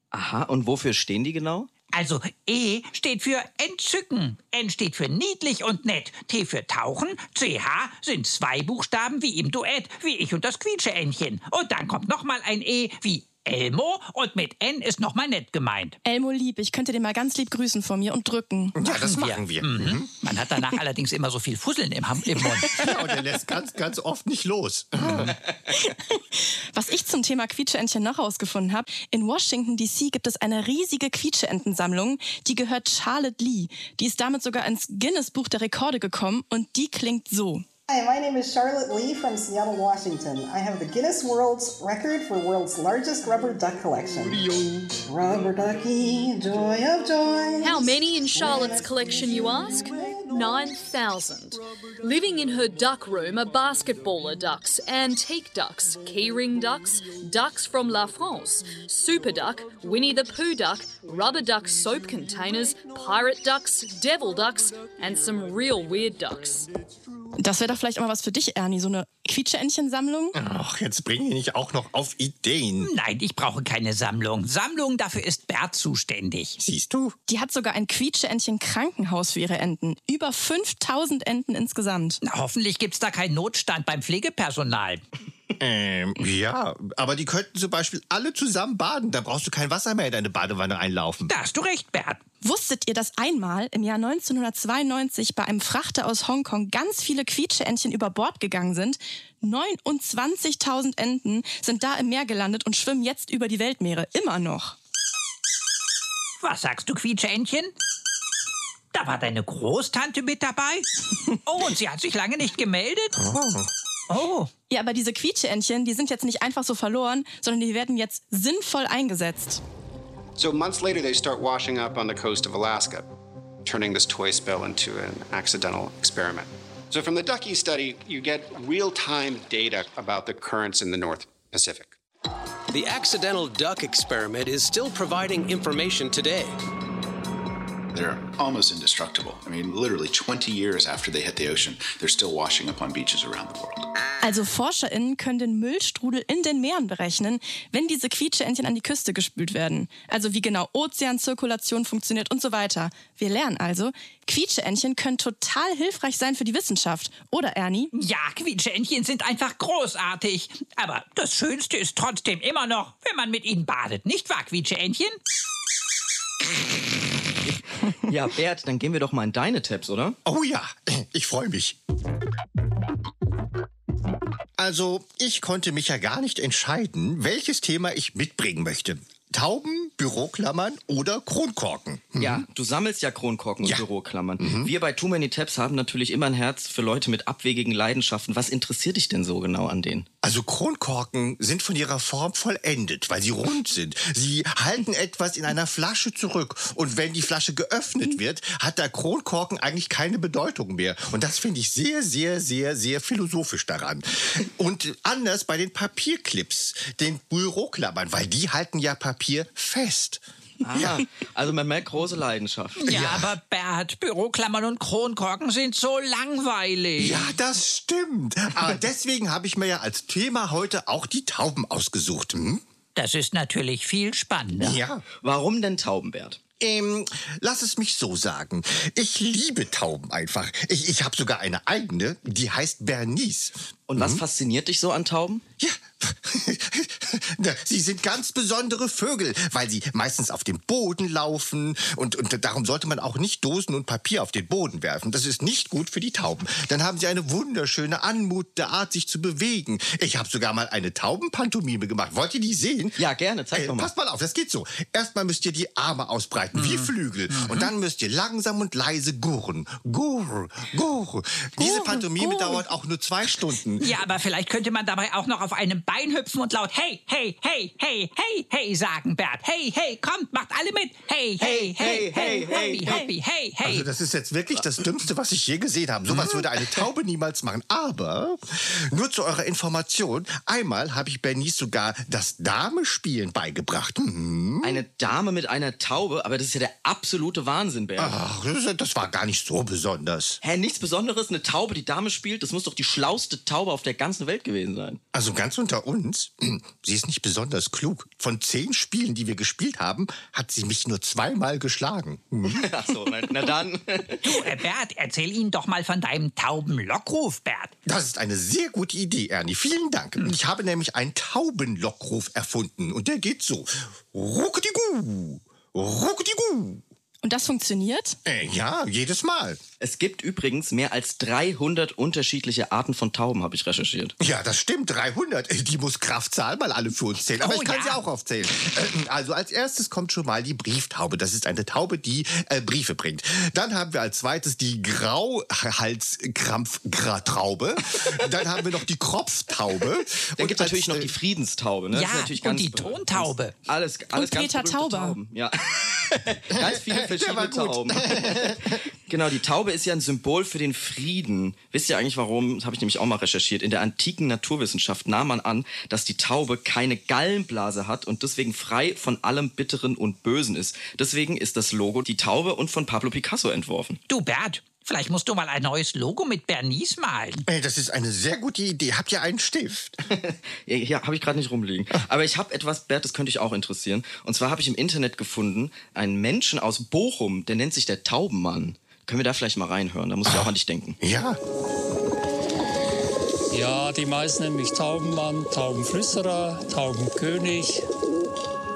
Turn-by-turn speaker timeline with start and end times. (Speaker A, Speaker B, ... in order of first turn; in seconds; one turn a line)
Speaker A: 0.1-1.7
Speaker B: 1.9-16.0
Speaker C: 16.0-18.8
Speaker D: 18.7-20.1
Speaker B: 19.0-22.8
Speaker D: 22.7-25.4
Speaker C: 25.7-37.6
Speaker E: 37.9-50.4
Speaker F: 47.7-49.8
Speaker F: 50.3-66.7
Speaker C: 67.4-70.3
Speaker D: 70.3-72.9
Speaker B: 72.8-76.6
Speaker D: 76.6-77.2
Speaker C: 77.3-82.2
Speaker B: 82.2-85.0
Speaker D: 85.6-91.3
Speaker B: 91.3-92.2
Speaker C: 92.4-104.8
Speaker B: 106.4-107.7
Speaker B: 108.9-113.1
Speaker D: 113.2-113.7
Speaker B: 114.1-114.5
Speaker C: 114.7-119.6
Speaker G: 120.4-123.0
Speaker G: 123.6-131.9
Speaker G: 132.7-136.6
Speaker H: 137.9-143.8
Speaker C: 144.2-157.9
Speaker B: 157.9-165.2
Speaker A: 167.4-170.2
Speaker D: 170.2-171.8
Speaker D: 174.6-182.4
Speaker A: 182.2-190.1
Speaker D: 184.4-184.7
Speaker D: 190.2-211.1
Speaker A: 210.6-213.0
Speaker B: 212.8-217.3
Speaker D: 212.8-213.3
Speaker D: 217.0-222.6
Speaker B: 222.9-224.8
Speaker D: 224.6-225.0
Speaker A: 225.2-226.4
Speaker D: 226.6-234.2
Speaker A: 233.9-235.4
Speaker D: 235.6-264.0
Speaker A: 253.0-253.9
Speaker B: 256.5-257.7
Speaker C: 261.6-262.7
Speaker B: 263.8-273.9
Speaker A: 271.4-273.0
Speaker C: 272.1-273.1
Speaker D: 273.6-284.8
Speaker A: 276.1-276.9
Speaker A: 284.6-288.2
Speaker D: 288.0-290.4
Speaker A: 290.4-295.0
Speaker D: 295.1-302.7
Speaker A: 302.4-304.5
Speaker B: 304.2-307.7
Speaker D: 307.9-316.8
Speaker C: 317.2-318.2
Speaker D: 318.2-319.6
Speaker A: 319.8-324.1
Speaker D: 324.2-341.1
Speaker B: 327.4-328.0
Speaker A: 340.4-364.0
Speaker B: 341.9-343.5
Speaker C: 344.1-345.2
Speaker D: 346.6-348.8
Speaker B: 364.1-367.4
Speaker D: 367.5-370.0
Speaker A: 370.1-381.0
Speaker D: 380.3-381.4
Speaker I: 383.5-387.9